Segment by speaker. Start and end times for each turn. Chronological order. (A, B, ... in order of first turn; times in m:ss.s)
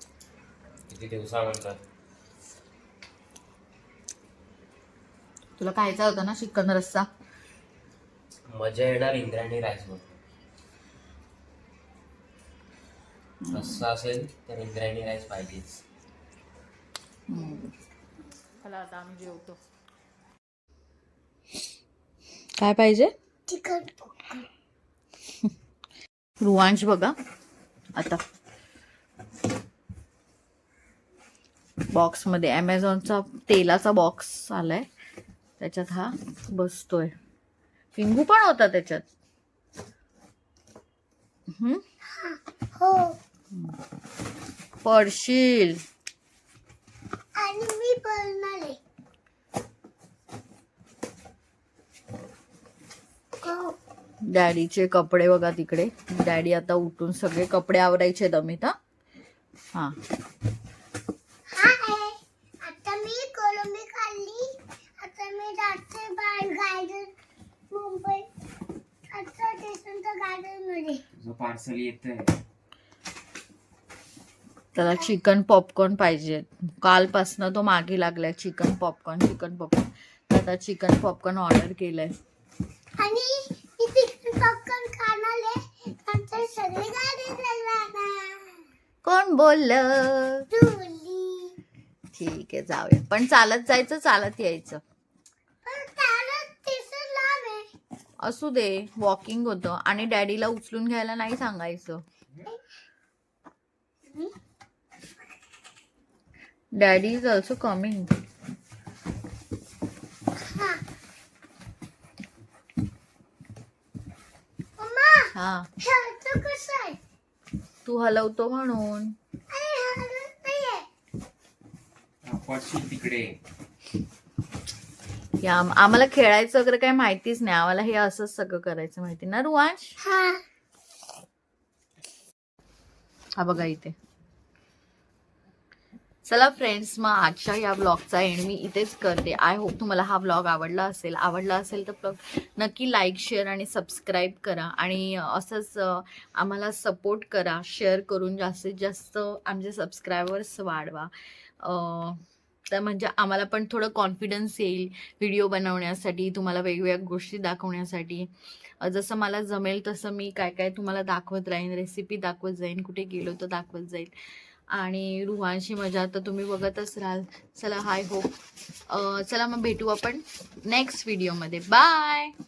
0:00.9-0:01.8 A
0:05.6-0:07.1 B
0:08.5-0:10.2 A
0:13.4-0:13.8 B
0:13.5-0:15.8 A
0:17.3-0:17.7 B
0:18.6-0:19.6 B
0:22.6-0:23.1 B
0:23.5-0:24.3 C
0:26.4-0:27.1 B
0:27.9-0:28.2 B
0:31.9-0:34.9 B
0:35.6-0:37.1 B
0:37.9-0:39.0 B
0:41.5-0:41.8 B
0:42.0-0:43.2 C
0:44.8-0:45.8 B
0:47.4-0:48.8 C
0:53.4-0:53.8 C
0:54.2-0:58.7 B
1:01.5-1:07.1 C
1:07.7-1:08.3 C
1:09.1-1:11.0 C
1:11.1-1:12.3 A
1:14.7-1:22.1 B
1:23.0-1:28.6 C
1:29.0-1:30.5 B
1:30.5-1:31.6 C
1:32.1-1:34.8 B
1:35.6-1:37.7 C
1:38.2-1:42.0 B
1:44.1-1:44.3 C
1:46.8-1:48.1 B
1:50.4-1:50.8 C
1:54.8-1:57.0 C
1:55.3-1:55.7 B
1:57.8-1:59.1 B
1:59.5-2:00.9 C
2:02.2-2:03.4 A
2:05.4-2:09.9 B
2:10.0-2:10.4 C
2:13.4-2:13.9 B
2:16.2-2:38.3 B
2:38.8-2:44.1 B
2:44.7-2:48.3 B
2:48.9-2:52.3 B